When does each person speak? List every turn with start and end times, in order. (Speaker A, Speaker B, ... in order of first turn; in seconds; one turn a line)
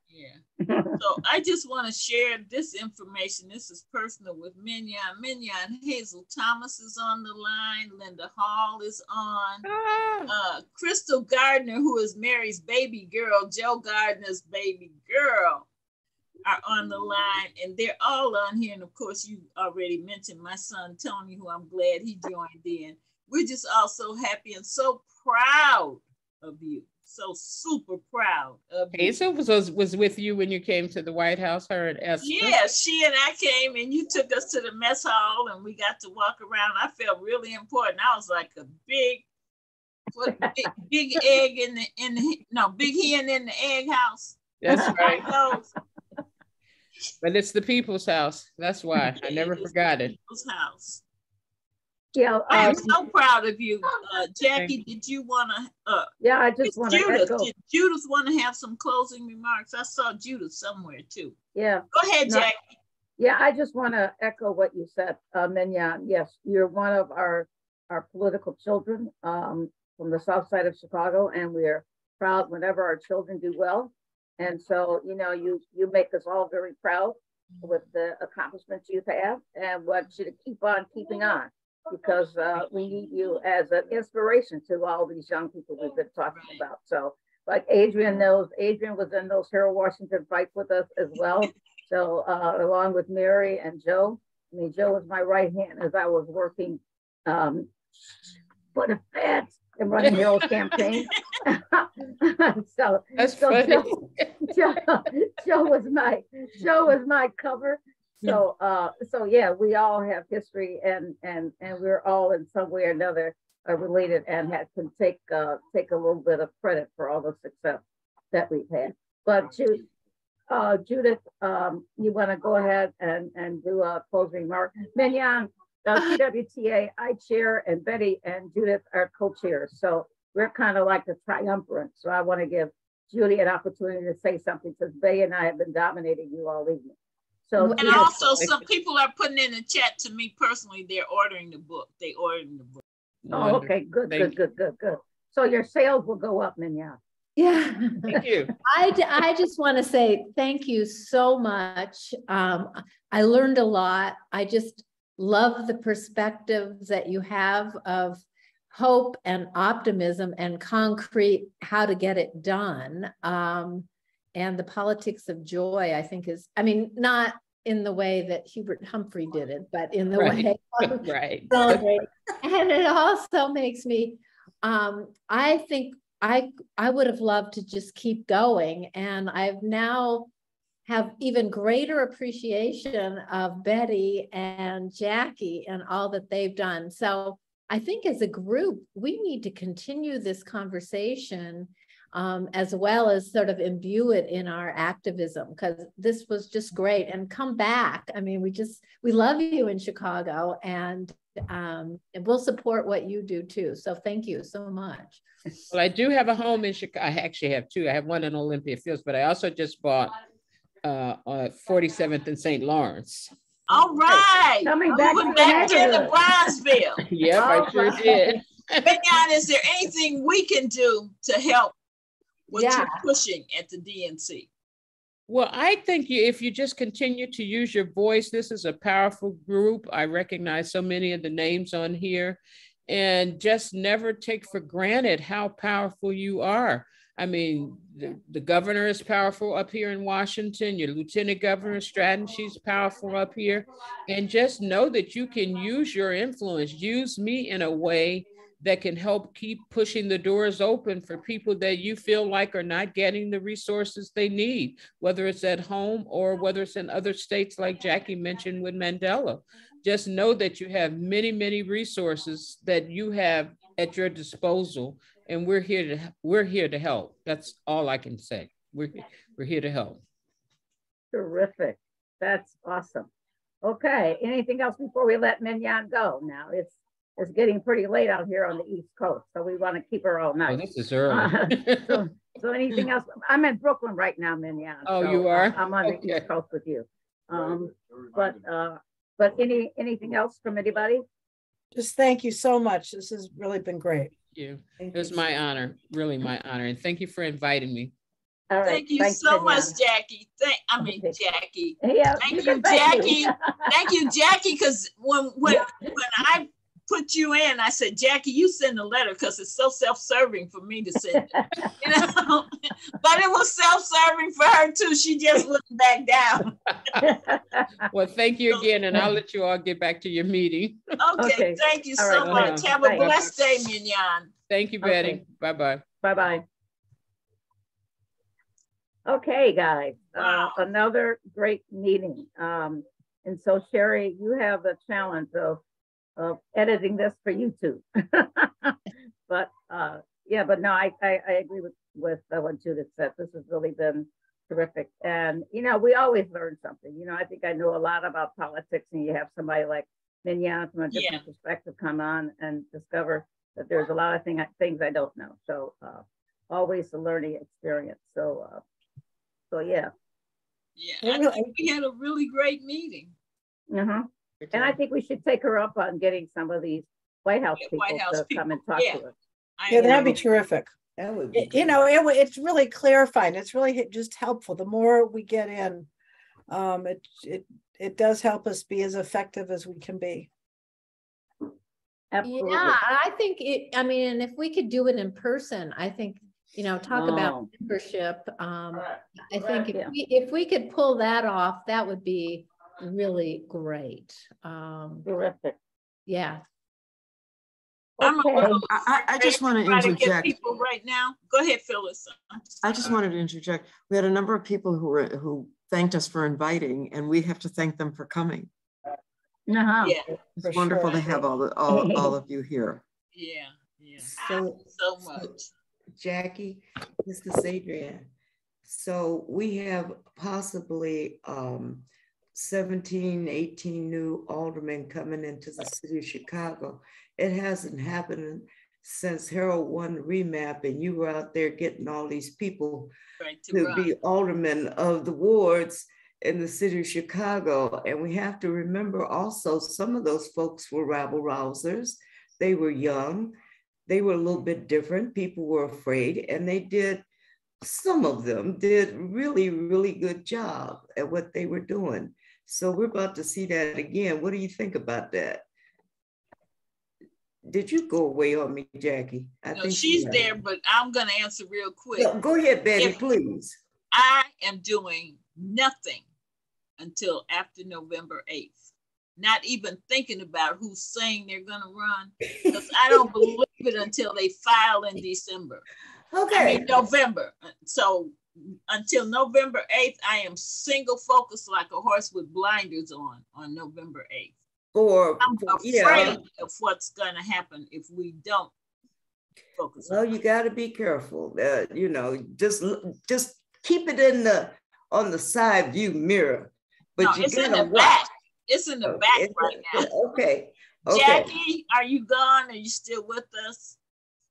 Speaker A: 0.1-0.4
Speaker B: 0.6-0.9
Speaker A: 1.0-9.6
Speaker C: 9.6-10.3
Speaker A: 10.3-15.7
Speaker A: 16.4-29.1
Speaker C: 28.9-32.6
Speaker A: 32.2-39.2
Speaker A: 40.1-45.7
Speaker C: 44.6-45.2
Speaker B: 44.7-45.3
Speaker C: 47.2-50.1
Speaker A: 49.2-51.0
Speaker B: 52.1-53.0
Speaker A: 52.5-56.1
Speaker C: 52.6-52.8
Speaker B: 56.2-57.5
Speaker A: 56.6-61.3
Speaker B: 61.5-62.5
Speaker A: 61.9-62.6
Speaker B: 63.2-97.7
Speaker A: 86.3-86.6
Speaker B: 98.7-103.9
Speaker C: 100.0-100.3
Speaker C: 103.2-104.7
Speaker B: 104.5-119.8
Speaker B: 120.5-136.9
Speaker B: 137.5-138.3
Speaker D: 137.6-138.2
Speaker A: 137.8-142.8
Speaker C: 143.2-144.3
Speaker B: 143.3-147.0
Speaker D: 147.3-180.3
Speaker C: 148.1-148.5
Speaker C: 170.2-171.9
Speaker D: 180.8-205.2
Speaker C: 205.7-210.1
Speaker C: 210.8-213.3
Speaker A: 213.7-217.0
Speaker B: 214.1-216.2
Speaker C: 217.0-219.0
Speaker B: 217.3-218.4
Speaker A: 218.8-221.7
Speaker A: 222.5-224.5
Speaker D: 222.5-223.0
Speaker C: 225.3-270.0
Speaker B: 271.1-273.1
Speaker B: 273.6-291.0
Speaker C: 280.5-282.0
Speaker C: 284.9-286.3
Speaker E: 291.7-294.1
Speaker C: 294.3-297.9
Speaker F: 294.8-295.2
Speaker B: 298.5-299.7
Speaker A: 298.6-316.6
Speaker B: 300.8-301.1
Speaker B: 301.8-303.7
Speaker B: 305.6-305.9
Speaker B: 311.3-311.7
Speaker B: 317.0-317.7
Speaker C: 317.9-320.8
Speaker A: 321.0-324.3
Speaker B: 321.2-323.1
Speaker C: 322.2-323.3
Speaker C: 324.5-325.8
Speaker B: 324.8-325.2
Speaker B: 326.0-326.4
Speaker B: 329.1-335.6
Speaker A: 330.1-330.6
Speaker B: 336.2-358.6
Speaker A: 350.9-351.2
Speaker B: 359.5-359.9
Speaker A: 360.8-363.1
Speaker E: 361.0-361.5
Speaker B: 363.7-369.1
Speaker A: 367.6-369.0
Speaker A: 369.6-370.4
Speaker E: 369.7-370.7
Speaker F: 371.0-371.8
Speaker E: 371.3-375.9
Speaker E: 376.5-380.3
Speaker B: 382.1-382.8
Speaker D: 382.2-395.1
Speaker B: 386.9-387.5
Speaker B: 395.0-395.6
Speaker D: 396.1-396.4
Speaker B: 398.0-398.6
Speaker A: 398.0-402.5
Speaker G: 398.4-400.4
Speaker G: 402.6-408.5
Speaker B: 409.5-412.1
Speaker G: 410.4-412.8
Speaker A: 413.1-415.5
Speaker F: 414.0-415.3
Speaker F: 416.0-418.1
Speaker F: 418.6-432.9
Speaker A: 433.2-433.9
Speaker F: 433.5-443.4
Speaker F: 443.9-447.0
Speaker F: 447.6-455.4
Speaker F: 457.5-460.4
Speaker A: 459.5-462.1
Speaker F: 461.9-463.6
Speaker A: 463.9-466.0
Speaker A: 466.8-468.6
Speaker A: 469.2-475.6
Speaker F: 472.5-473.0
Speaker F: 476.1-476.8
Speaker A: 476.3-478.2
Speaker A: 478.7-484.3
Speaker F: 484.7-486.2
Speaker A: 485.2-488.5
Speaker A: 489.6-490.0
Speaker F: 489.8-498.1
Speaker A: 497.0-499.9
Speaker F: 498.8-501.3
Speaker A: 500.9-503.8